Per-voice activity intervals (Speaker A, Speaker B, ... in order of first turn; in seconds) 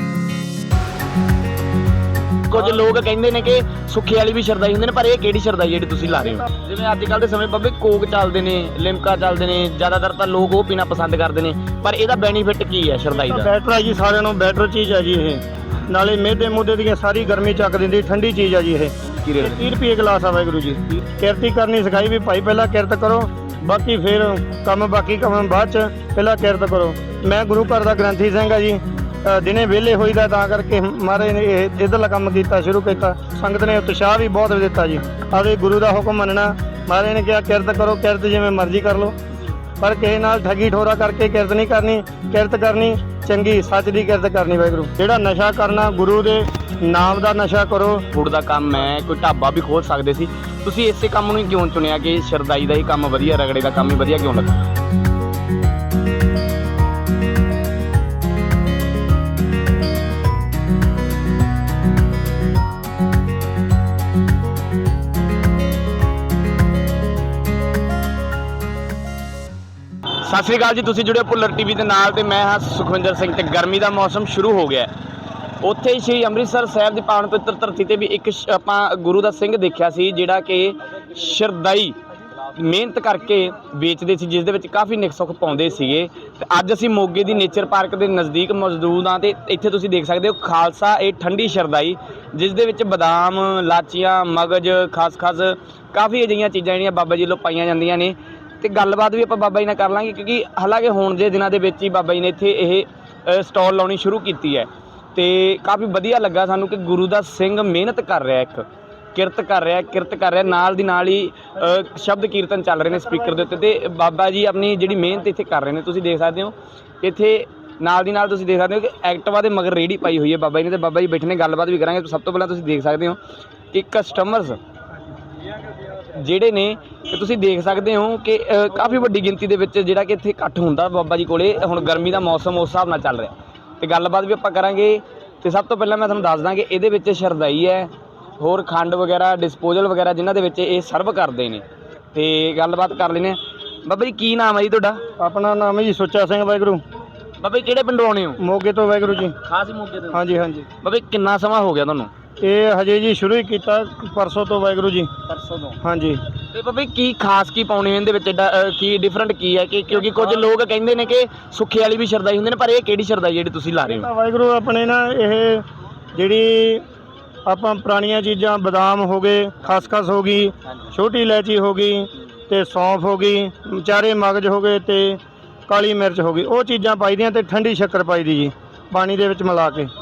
Speaker A: 2.5-13.5, 19.0-19.7, 48.1-54.6, 70.2-74.9, 75.6-123.2, 123.7-124.6, 126.0-145.0, 147.4-148.4, 149.4-150.2, 150.8-152.1, 155.3-155.8, 156.5-164.1
Speaker B: 13.1-39.1, 39.8-48.0, 145.2-146.8, 148.4-149.3, 150.1-150.7, 152.4-155.1, 155.8-156.2, 163.8-166.8, 167.4-179.9